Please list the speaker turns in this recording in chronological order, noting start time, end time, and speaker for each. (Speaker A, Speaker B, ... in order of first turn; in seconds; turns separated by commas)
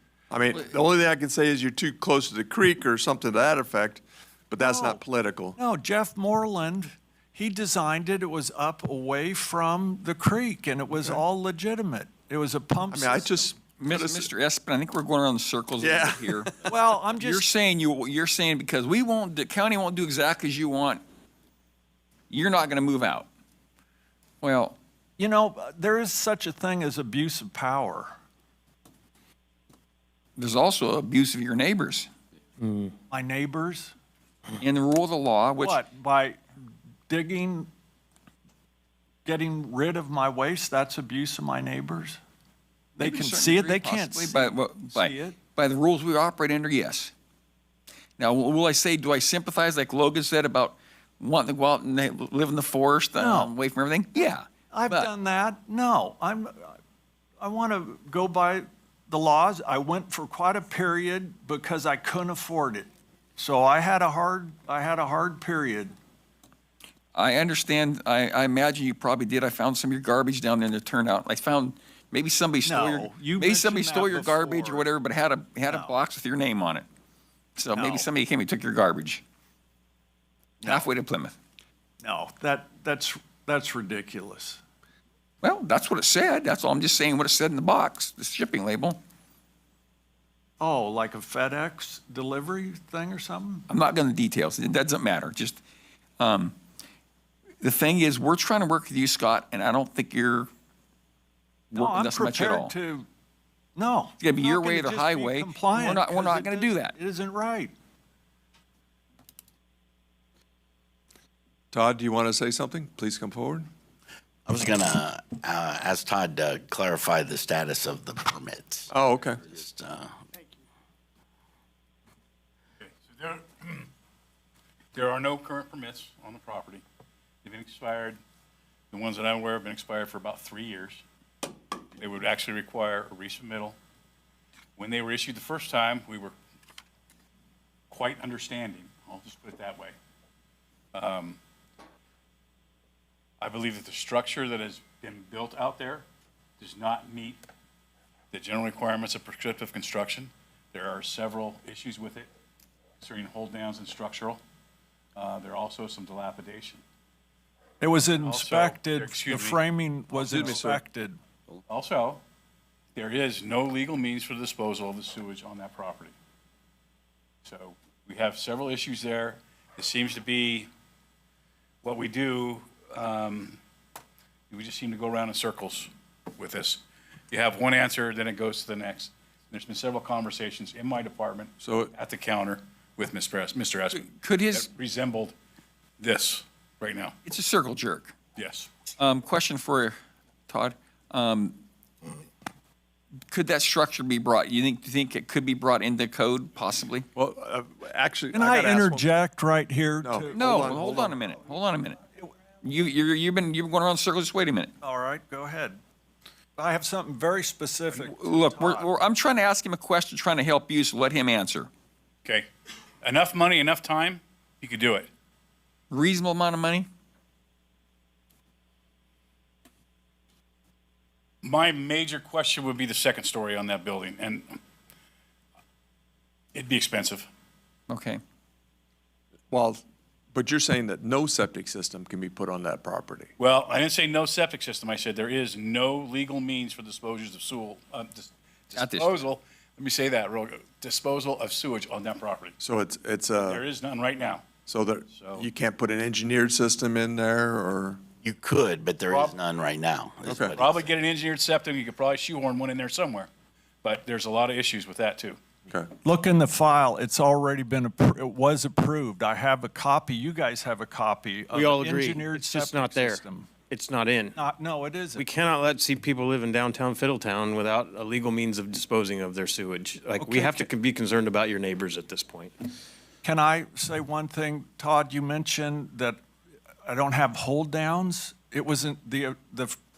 Speaker A: 0.3-5.6, Speaker B: 4.6-5.0, Speaker B: 5.6-13.6, Speaker A: 12.9-14.3, Speaker C: 13.8-16.6, Speaker A: 15.8-16.7, Speaker B: 16.7-17.5, Speaker C: 17.1-21.0, Speaker C: 22.3-23.3, Speaker C: 24.4-24.8, Speaker B: 25.2-28.2, Speaker C: 30.4-32.1, Speaker D: 32.6-32.9, Speaker B: 33.1-33.9, Speaker C: 34.6-35.8, Speaker B: 35.6-36.4, Speaker B: 37.1-37.7, Speaker B: 39.2-42.2, Speaker B: 43.0-45.4, Speaker C: 43.0-47.1, Speaker C: 48.2-55.1, Speaker B: 53.2-53.5, Speaker B: 54.7-56.8, Speaker B: 57.4-65.9, Speaker C: 67.1-76.9, Speaker B: 72.6-74.9, Speaker B: 75.7-75.9, Speaker C: 77.6-79.2, Speaker B: 77.7-78.1, Speaker B: 80.6-80.9, Speaker C: 80.6-81.3, Speaker B: 82.0-84.6, Speaker C: 85.4-89.0, Speaker B: 90.6-93.7, Speaker C: 93.7-95.6, Speaker C: 96.2-96.5, Speaker C: 97.6-100.5, Speaker B: 101.7-103.1, Speaker C: 101.7-102.7, Speaker B: 103.8-107.7, Speaker C: 104.2-106.9, Speaker A: 111.7-113.7, Speaker E: 114.5-118.9, Speaker A: 118.9-119.4, Speaker E: 119.4-120.2, Speaker F: 122.8-123.9, Speaker F: 125.0-126.8, Speaker F: 127.4-128.2, Speaker F: 128.9-131.0, Speaker F: 132.0-133.8, Speaker F: 134.8-136.3, Speaker F: 137.9-139.9, Speaker F: 140.9-141.4, Speaker F: 143.4-146.1, Speaker F: 146.6-147.4, Speaker F: 148.3-152.3, Speaker F: 153.0-154.4, Speaker F: 155.2-156.8, Speaker B: 157.8-161.2, Speaker F: 158.2-159.6, Speaker A: 160.2-160.8, Speaker F: 161.7-162.2, Speaker F: 162.9-166.1, Speaker F: 167.5-170.7, Speaker F: 171.8-173.6, Speaker F: 174.5-185.3, Speaker A: 181.6-181.9, Speaker C: 183.9-184.7, Speaker F: 186.0-187.1, Speaker C: 187.2-188.2, Speaker F: 188.4-188.7, Speaker C: 189.0-189.9, Speaker C: 190.5-191.6, Speaker C: 193.3-197.1, Speaker A: 197.2-199.1, Speaker B: 198.3-201.0, Speaker A: 200.0-201.2, Speaker C: 200.3-202.0, Speaker C: 202.6-204.7, Speaker B: 204.8-205.8, Speaker B: 206.6-208.9, Speaker C: 208.0-211.7, Speaker F: 213.0-215.1, Speaker C: 215.9-216.9, Speaker F: 221.4-224.6, Speaker F: 226.6-227.3, Speaker C: 227.9-228.2, Speaker A: 229.5-229.8, Speaker A: 230.3-233.3, Speaker F: 233.4-242.6, Speaker C: 238.8-239.2, Speaker A: 242.6-243.6, Speaker F: 243.4-244.5, Speaker A: 244.7-248.0, Speaker F: 245.1-245.5, Speaker E: 248.2-250.9, Speaker F: 249.1-249.4, Speaker A: 250.2-250.6, Speaker F: 250.4-253.3, Speaker F: 253.8-255.4, Speaker B: 256.0-263.5, Speaker D: 261.5-264.4, Speaker B: 264.4-265.3, Speaker D: 265.1-272.6, Speaker B: 270.2-270.7, Speaker B: 273.2-276.2, Speaker B: 276.9-279.8